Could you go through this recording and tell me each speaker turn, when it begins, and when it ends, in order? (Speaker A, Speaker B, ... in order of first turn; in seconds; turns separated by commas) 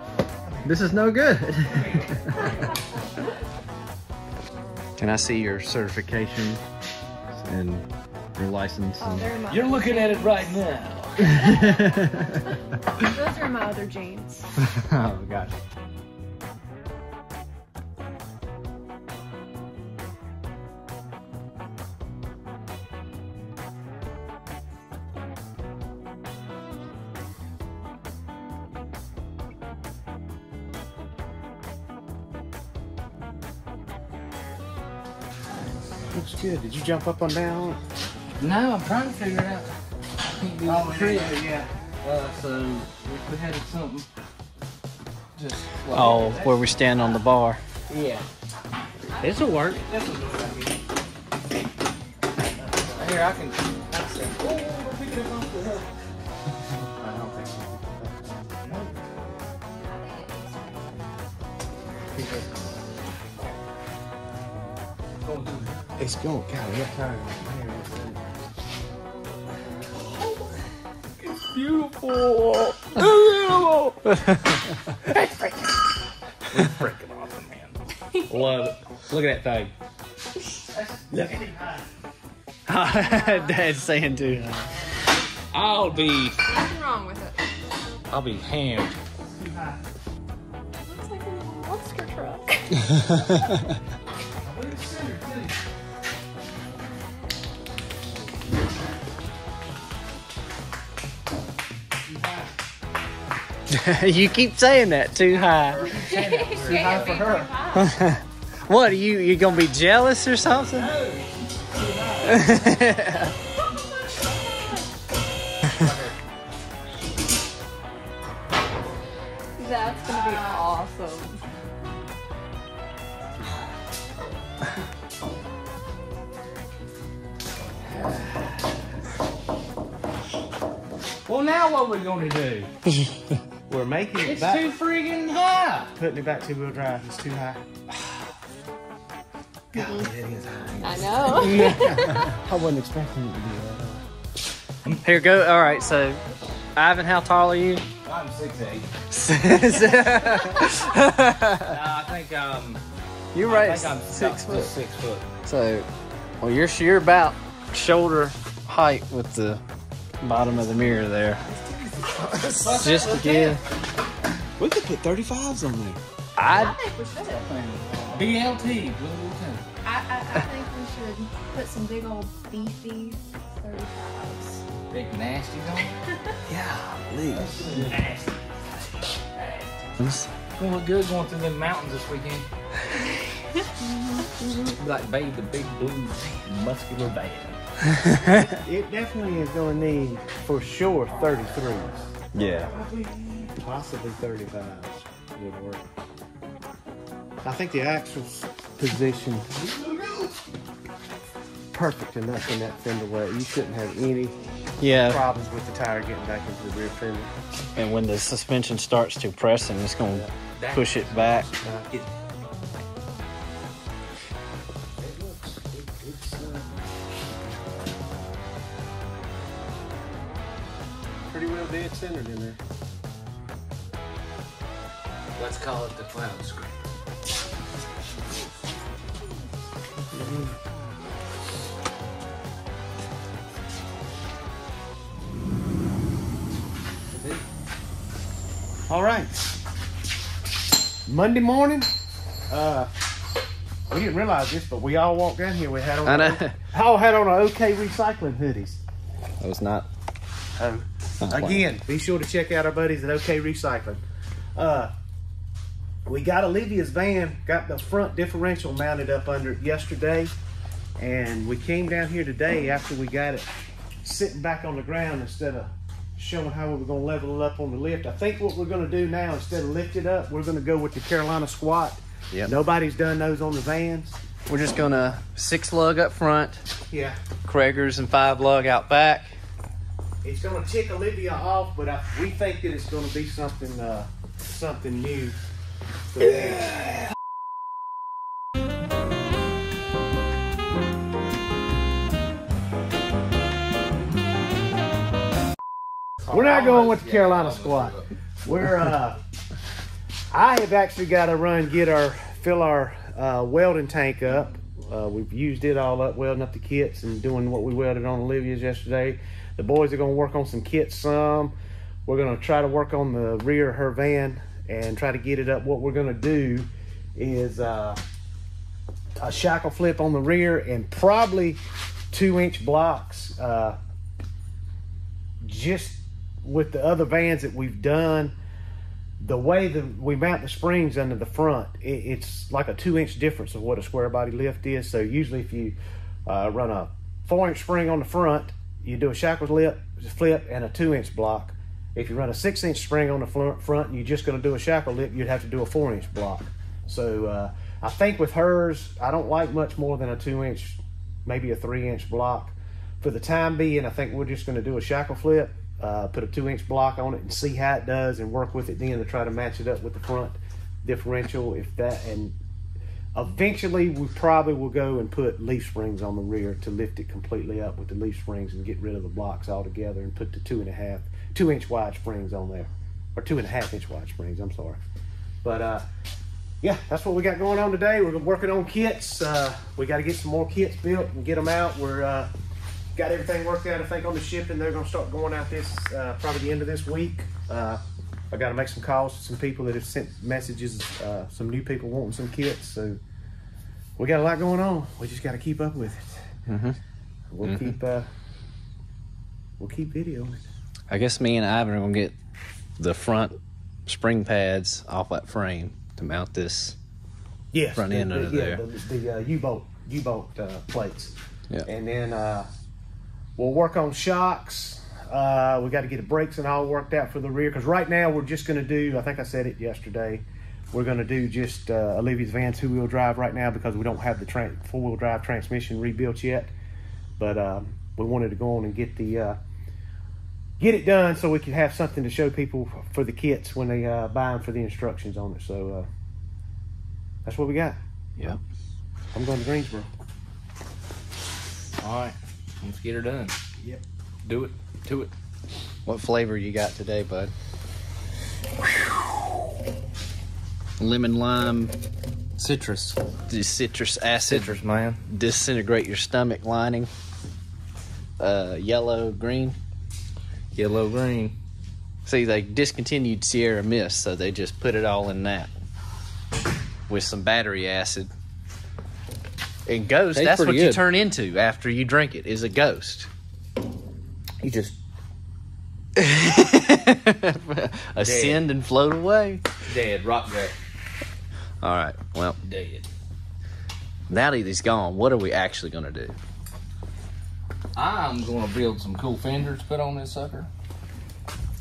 Speaker A: 0.5-0.9, Speaker B: 0.7-2.5, Speaker A: 1.7-2.4, Speaker B: 5.0-6.6, Speaker B: 7.3-9.3, Speaker C: 9.0-10.7, Speaker D: 9.5-11.6, Speaker C: 11.2-14.5, Speaker B: 11.3-12.4, Speaker B: 14.6-15.5, Speaker A: 36.1-37.8, Speaker D: 38.4-41.5, Speaker A: 40.6-41.7, Speaker D: 42.0-44.1, Speaker D: 45.4-46.4, Speaker B: 45.9-47.6, Speaker A: 46.0-46.9, Speaker D: 47.9-48.3, Speaker C: 49.2-49.5, Speaker D: 49.3-50.2, Speaker A: 49.8-50.7, Speaker A: 52.5-53.3, Speaker D: 52.9-55.9, Speaker A: 57.0-58.4, Speaker D: 58.6-59.0, Speaker C: 59.8-61.1, Speaker A: 62.1-62.7, Speaker D: 65.2-65.8, Speaker A: 66.0-68.2, Speaker D: 71.2-74.0, Speaker D: 75.1-75.3, Speaker D: 76.5-77.8, Speaker D: 78.3-79.7, Speaker A: 80.7-81.9, Speaker B: 82.7-84.7, Speaker C: 83.0-83.9, Speaker D: 85.5-86.4, Speaker C: 86.5-87.4, Speaker D: 88.1-89.0, Speaker A: 89.2-89.8, Speaker C: 90.8-92.7, Speaker A: 94.4-95.6, Speaker A: 102.1-102.5, Speaker B: 103.7-105.9, Speaker C: 105.7-107.9, Speaker A: 105.7-107.6, Speaker D: 106.4-107.2, Speaker B: 107.7-110.9, Speaker A: 110.8-111.3, Speaker D: 111.8-112.6, Speaker A: 111.8-112.3, Speaker B: 112.2-113.3, Speaker C: 113.6-114.9, Speaker C: 119.6-121.4, Speaker D: 131.3-132.7, Speaker A: 133.7-134.7, Speaker D: 134.2-135.9, Speaker A: 135.9-137.7, Speaker A: 139.7-144.1, Speaker C: 139.8-140.1, Speaker C: 140.8-142.3, Speaker B: 145.0-146.2, Speaker C: 145.5-146.6, Speaker B: 146.8-147.8, Speaker D: 148.0-148.9, Speaker B: 149.1-151.8, Speaker D: 151.7-152.8, Speaker B: 153.3-154.7, Speaker D: 153.4-155.3, Speaker B: 155.4-155.9, Speaker B: 156.4-159.6, Speaker B: 160.2-161.4, Speaker D: 161.4-163.6, Speaker B: 162.7-163.6, Speaker A: 164.6-166.0, Speaker B: 166.4-166.8, Speaker C: 166.5-167.5, Speaker D: 167.4-169.6, Speaker C: 169.8-174.6, Speaker D: 174.9-175.9, Speaker A: 176.5-178.2, Speaker D: 177.3-178.2, Speaker B: 180.0-180.3, Speaker D: 180.6-182.5, Speaker C: 183.8-184.8, Speaker D: 184.7-187.6, Speaker B: 188.0-188.5, Speaker A: 188.3-195.8, Speaker B: 192.3-192.7, Speaker D: 192.7-193.4, Speaker A: 197.4-199.8, Speaker D: 199.9-200.2, Speaker A: 201.7-204.4, Speaker B: 204.8-205.2, Speaker A: 204.9-207.3, Speaker B: 207.8-211.5, Speaker D: 210.6-212.1, Speaker A: 211.6-211.9, Speaker A: 215.0-216.7, Speaker A: 221.3-222.6, Speaker D: 225.4-226.8, Speaker A: 230.1-230.5, Speaker D: 237.1-237.4, Speaker A: 238.9-239.4, Speaker A: 241.1-241.9, Speaker A: 242.5-242.9, Speaker A: 243.9-248.8, Speaker B: 246.1-246.6, Speaker B: 249.4-249.9, Speaker A: 250.6-254.0, Speaker B: 251.2-251.7, Speaker A: 254.6-254.9, Speaker A: 256.1-260.3, Speaker A: 261.0-263.5, Speaker A: 264.0-274.2, Speaker B: 274.5-276.7, Speaker A: 276.9-277.2, Speaker B: 277.4-279.4, Speaker A: 280.2-285.4, Speaker A: 286.1-286.6, Speaker D: 296.3-298.1, Speaker A: 296.3-299.2, Speaker A: 300.3-311.5, Speaker A: 312.1-318.0, Speaker A: 319.2-321.6, Speaker A: 322.1-323.8, Speaker A: 325.4-328.4, Speaker A: 329.2-362.4, Speaker A: 363.1-374.8, Speaker A: 375.4-375.9, Speaker A: 376.6-382.3, Speaker A: 383.0-393.0, Speaker A: 394.0-396.4, Speaker B: 396.5-396.8, Speaker A: 397.3-398.1, Speaker B: 397.4-397.7, Speaker A: 399.6-400.4, Speaker B: 400.9-402.2, Speaker B: 402.8-406.8, Speaker A: 407.5-412.5, Speaker B: 407.8-408.6, Speaker A: 413.4-426.5, Speaker A: 427.2-429.4, Speaker A: 430.6-435.9, Speaker A: 437.2-437.8, Speaker A: 439.1-439.9, Speaker D: 441.8-443.4, Speaker D: 444.2-445.1, Speaker B: 445.9-447.3, Speaker B: 450.8-451.7, Speaker D: 452.4-453.0, Speaker B: 453.3-456.9, Speaker D: 454.2-455.0, Speaker B: 458.2-459.6, Speaker D: 460.5-461.4, Speaker B: 462.1-465.5, Speaker B: 466.9-468.1, Speaker B: 469.7-473.1, Speaker D: 470.1-470.8, Speaker D: 474.4-474.8, Speaker B: 476.0-479.4, Speaker D: 478.0-478.4, Speaker D: 479.7-480.5, Speaker B: 481.6-482.4, Speaker D: 482.4-482.9, Speaker B: 484.1-486.2, Speaker D: 487.8-490.5